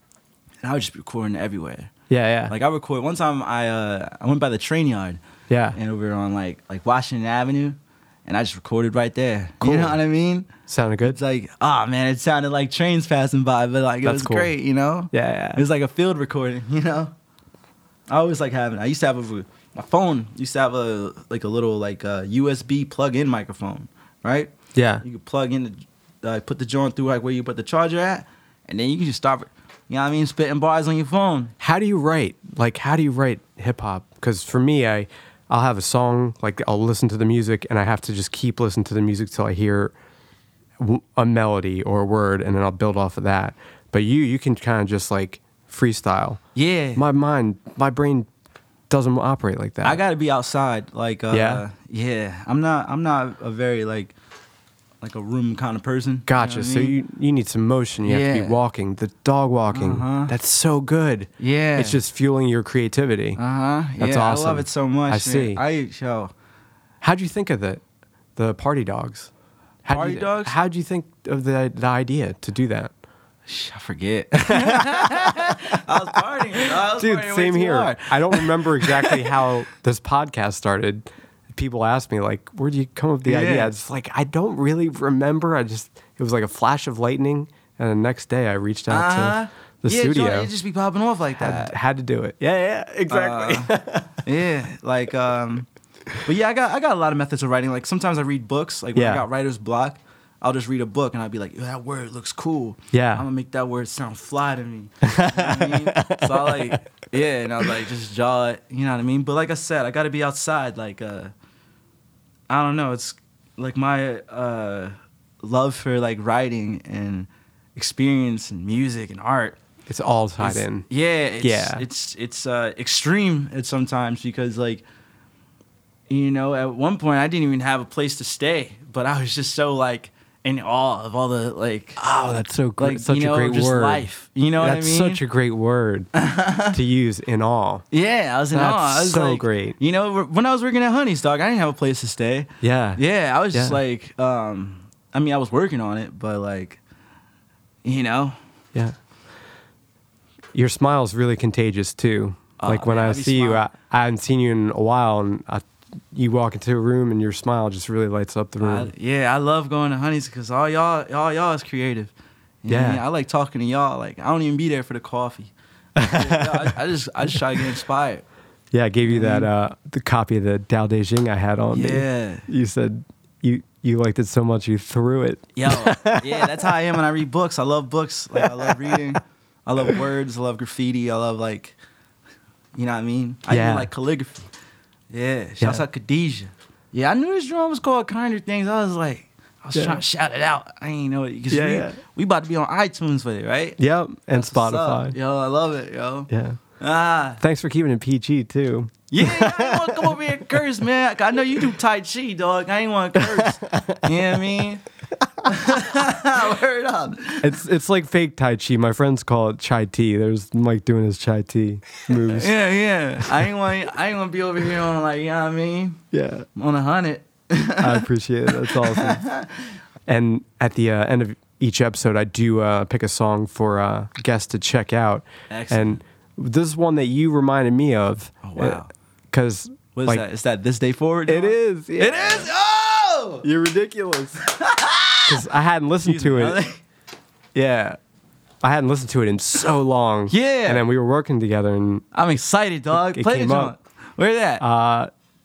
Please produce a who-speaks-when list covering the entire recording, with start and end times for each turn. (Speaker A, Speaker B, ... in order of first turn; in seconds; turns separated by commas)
Speaker A: 0.6-1.9, Speaker B: 2.1-2.5, Speaker A: 2.5-5.2, Speaker B: 5.5-5.8, Speaker A: 5.7-10.5, Speaker B: 9.6-10.0, Speaker B: 10.7-11.2, Speaker A: 11.0-17.1, Speaker B: 14.0-14.5, Speaker B: 15.1-15.6, Speaker A: 18.1-31.5, Speaker B: 24.8-25.0, Speaker B: 31.6-40.0, Speaker B: 40.8-46.4, Speaker A: 46.5-47.0, Speaker B: 47.0-48.3, Speaker B: 48.9-50.0, Speaker A: 49.8-54.1, Speaker B: 51.3-51.6, Speaker A: 55.0-57.0, Speaker B: 56.3-63.4, Speaker A: 58.0-58.6, Speaker A: 59.7-60.3, Speaker A: 61.4-62.0, Speaker A: 63.4-66.3, Speaker B: 64.0-65.6, Speaker B: 67.0-67.8, Speaker B: 68.4-69.3, Speaker B: 69.9-72.9, Speaker A: 69.9-70.6, Speaker A: 73.5-79.5, Speaker B: 74.5-75.3, Speaker B: 76.7-90.5, Speaker A: 83.2-83.7, Speaker A: 88.9-91.7, Speaker B: 91.4-94.2, Speaker A: 93.1-93.7, Speaker A: 94.2-95.7, Speaker A: 96.2-111.3, Speaker B: 99.0-99.2, Speaker B: 102.9-103.2, Speaker B: 105.0-106.8, Speaker A: 112.5-119.6, Speaker B: 119.9-120.9, Speaker A: 120.4-124.8, Speaker B: 121.4-121.9, Speaker A: 126.1-135.2, Speaker B: 132.0-134.0, Speaker B: 134.6-136.1, Speaker A: 136.1-136.8, Speaker B: 136.7-137.8, Speaker A: 137.9-146.8, Speaker B: 138.5-139.8, Speaker B: 142.6-143.0, Speaker B: 143.5-143.8, Speaker A: 147.8-148.4, Speaker B: 150.5-158.9, Speaker A: 152.6-153.7, Speaker A: 158.6-162.1, Speaker A: 162.6-168.2, Speaker B: 162.7-163.0, Speaker B: 166.0-166.7, Speaker B: 168.7-176.7, Speaker A: 169.0-169.5, Speaker A: 171.7-172.5, Speaker A: 175.6-181.8, Speaker B: 178.4-179.0, Speaker A: 182.8-184.5, Speaker B: 183.5-183.9, Speaker A: 185.1-193.8, Speaker B: 189.8-190.0, Speaker B: 191.5-192.0, Speaker B: 193.8-195.2, Speaker A: 194.3-196.3, Speaker B: 196.3-196.6, Speaker A: 196.8-197.4, Speaker B: 197.4-200.2, Speaker A: 199.1-204.8, Speaker B: 203.2-204.4, Speaker A: 205.4-207.6, Speaker B: 207.4-212.5, Speaker A: 212.2-216.0, Speaker B: 216.1-216.5, Speaker A: 216.5-218.1, Speaker B: 217.8-219.2, Speaker A: 218.6-219.7, Speaker B: 220.1-230.2, Speaker A: 225.5-226.0, Speaker A: 228.4-228.9, Speaker A: 229.9-233.5, Speaker B: 231.3-232.5, Speaker B: 233.4-234.4, Speaker A: 234.4-235.4, Speaker B: 235.3-236.6, Speaker A: 236.0-236.8, Speaker B: 237.5-238.0, Speaker B: 238.6-242.0, Speaker A: 240.3-240.8, Speaker A: 242.1-244.6, Speaker B: 242.9-243.7, Speaker B: 244.6-245.1